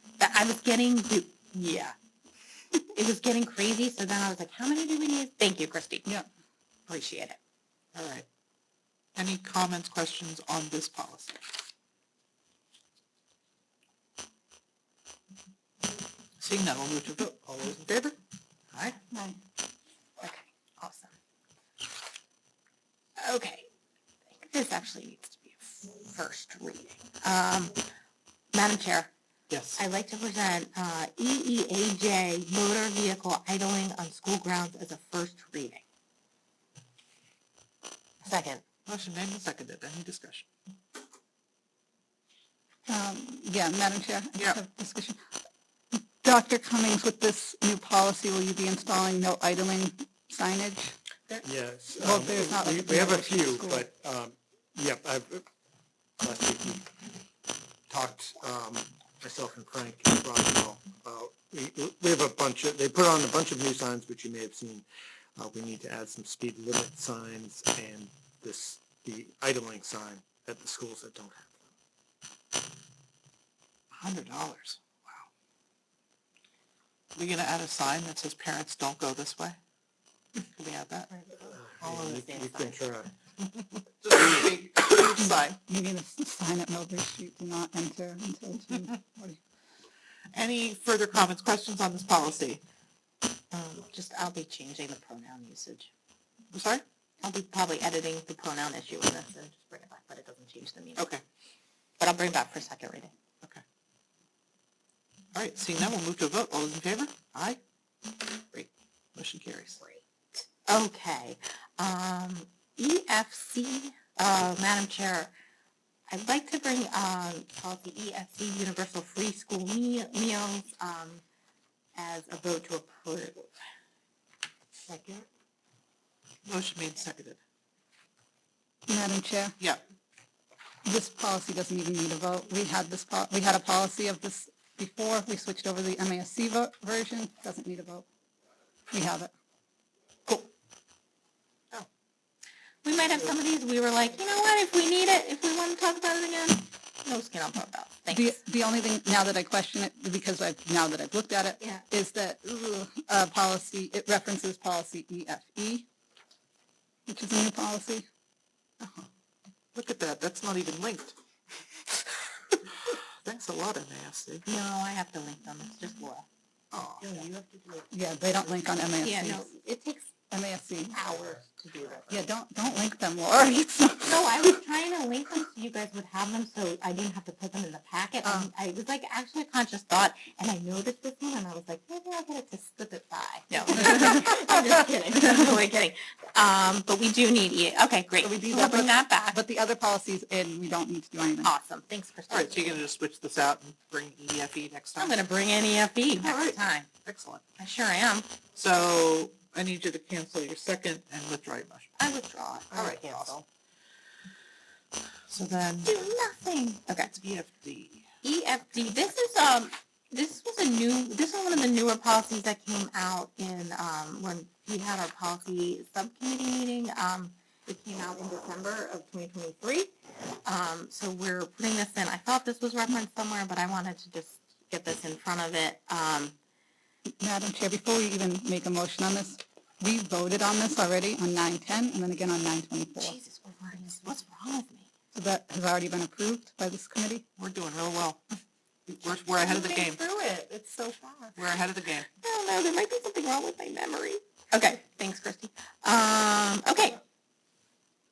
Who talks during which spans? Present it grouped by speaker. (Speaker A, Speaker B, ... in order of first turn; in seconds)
Speaker A: 0.2-1.9, 3.0-6.1, 6.9-7.4, 20.2-21.1, 23.2-23.7, 24.3-27.8, 28.5-29.1, 29.8-35.8, 38.2-38.6, 81.1-82.8, 93.5-95.9, 97.2-101.1, 102.0-103.1, 109.8-115.3, 116.1-121.2, 121.9-123.5, 124.9-125.3, 142.8-148.4, 164.5-166.2, 167.0-167.8, 169.0-170.1, 170.9-172.2, 174.1-189.4, 191.4-192.8, 195.0-196.9, 197.6-198.3, 202.0-203.4, 205.8-207.1, 208.2-219.9, 220.4-226.3, 233.0-234.9, 239.4-241.3, 242.2-247.0
Speaker B: 7.9-8.2, 9.2-11.3, 16.4-18.2, 29.5-29.8, 38.9-40.5, 73.9-75.3, 77.1-79.6, 80.5-81.1, 84.0-85.6, 90.3-92.6, 96.5-96.8, 101.0-101.2, 105.3-107.6, 108.5-109.8, 126.4-127.4, 158.8-159.1, 159.8-161.2, 162.8-164.4, 166.7-167.2, 192.3-195.2, 196.2-197.4, 198.5-202.0, 202.7-203.4, 205.3-205.9, 207.1-208.1, 237.4-238.2, 238.9-240.0, 241.4-242.1
Speaker C: 19.1-19.4, 42.9-45.2, 46.2-50.9, 52.0-53.9, 85.5-89.4, 128.9-129.6, 130.8-138.1, 138.9-139.3, 148.1-155.8, 157.1-158.1, 167.9-169.5, 170.3-171.0, 172.1-174.6, 178.2-178.5, 183.8-184.1, 188.2-191.5, 227.2-233.2, 235.1-237.2
Speaker D: 51.4-55.4, 56.2-56.9, 57.9-71.6, 81.4-83.1